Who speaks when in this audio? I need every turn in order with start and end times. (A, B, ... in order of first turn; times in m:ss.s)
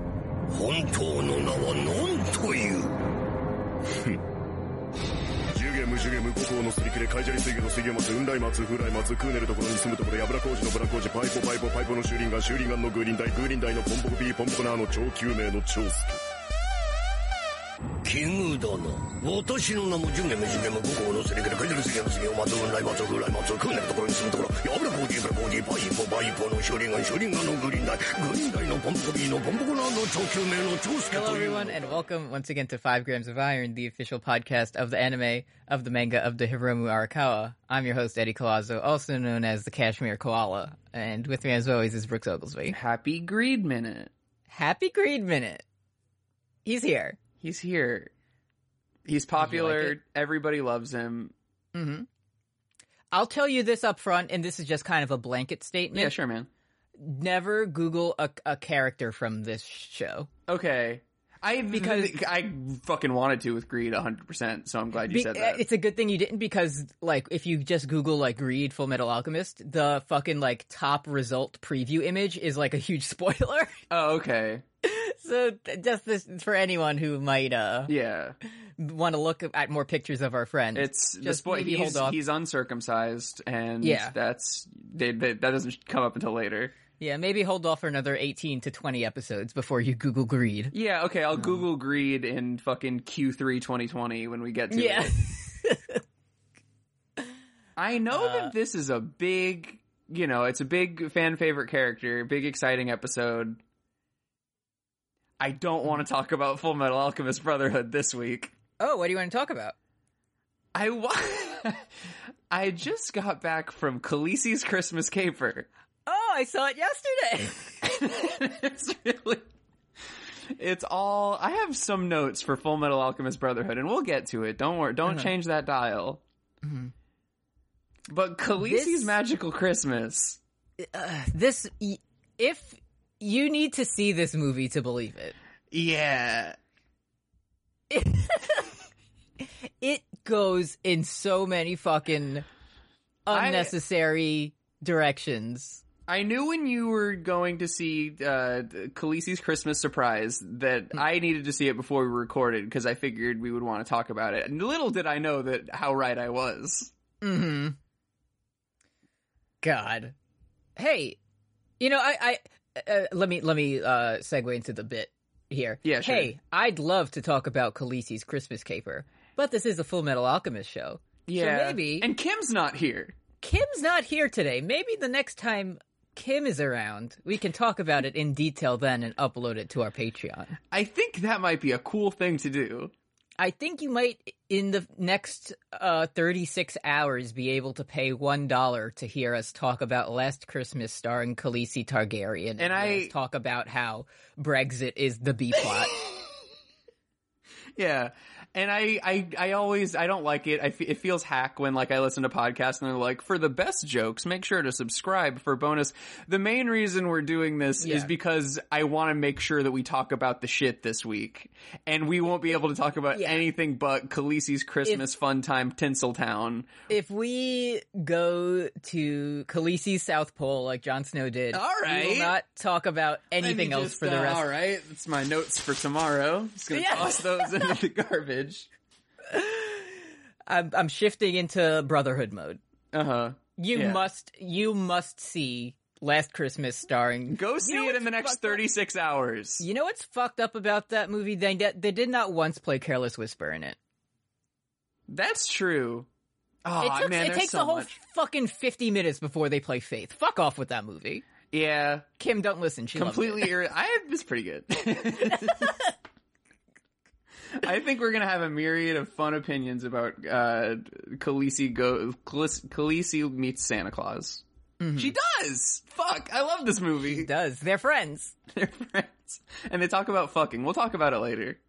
0:00.5-0:02.9 A
0:05.5-0:16.2 B
0:18.0-0:31.8 A
0:31.1-0:42.8 C
0:42.7-0:44.1 D
0:44.5-0:45.6 C
0:46.6-0:47.2 C
0:47.4-0:48.1 D
0:49.0-0:51.3 D
0:49.4-0:50.0 C
0:51.7-0:52.1 C
0:53.1-0:56.1 C
0:55.9-0:56.5 D
0:57.0-1:00.3 C
1:00.5-1:05.6 D
1:01.7-1:02.1 C
1:05.1-1:13.8 C
1:13.9-1:14.6 D
1:14.8-1:17.9 C
1:17.9-1:18.4 D
1:18.8-1:22.2 C
1:20.7-1:26.7 D
1:23.8-1:24.1 C
1:27.0-1:30.7 C
1:30.7-1:35.1 D
1:34.7-1:36.0 C
1:37.8-1:43.6 D
1:38.1-1:38.5 C
1:45.4-1:48.5 D
1:48.8-1:49.7 C
1:50.7-1:51.9 D
1:52.5-1:55.7 D
1:56.1-1:57.9 C
1:57.8-1:59.5 D
2:00.5-2:06.2 D
2:06.6-2:06.9 C
2:08.1-2:10.4 D
2:08.6-2:09.1 C
2:10.8-2:15.4 C
2:15.7-2:16.6 D
2:17.9-2:18.8 C
2:19.8-2:22.5 C
2:23.2-2:25.8 C
2:23.3-2:23.7 D
2:26.1-2:36.9 D
2:37.2-2:37.8 C
2:39.6-2:40.1 C
2:40.8-2:41.2 C
2:41.8-2:52.1 C
2:45.8-2:46.3 D
2:51.3-2:53.1 D
2:53.4-3:00.6 C
3:00.7-3:02.9 D
3:03.4-3:15.9 C
3:12.6-3:13.1 D
3:15.6-3:16.2 D
3:17.8-3:36.7 D
3:27.8-3:28.1 C
3:33.1-3:33.4 C
3:36.9-3:44.5 C
3:41.5-3:42.3 D
3:43.4-3:48.7 D
3:46.7-3:47.7 C
3:49.3-3:52.6 C
3:52.9-3:54.0 D
3:53.6-3:58.6 C
3:57.3-3:59.6 D
3:59.6-4:03.8 C
4:05.1-4:06.1 D
4:06.6-4:07.9 D
4:06.8-4:11.2 C
4:11.5-4:12.0 D
4:12.2-4:13.5 C
4:12.9-4:15.7 D
4:15.3-4:15.9 C
4:17.5-4:24.4 D
4:24.8-4:25.1 C
4:25.0-4:27.3 D
4:27.0-4:28.3 C
4:28.5-4:31.6 D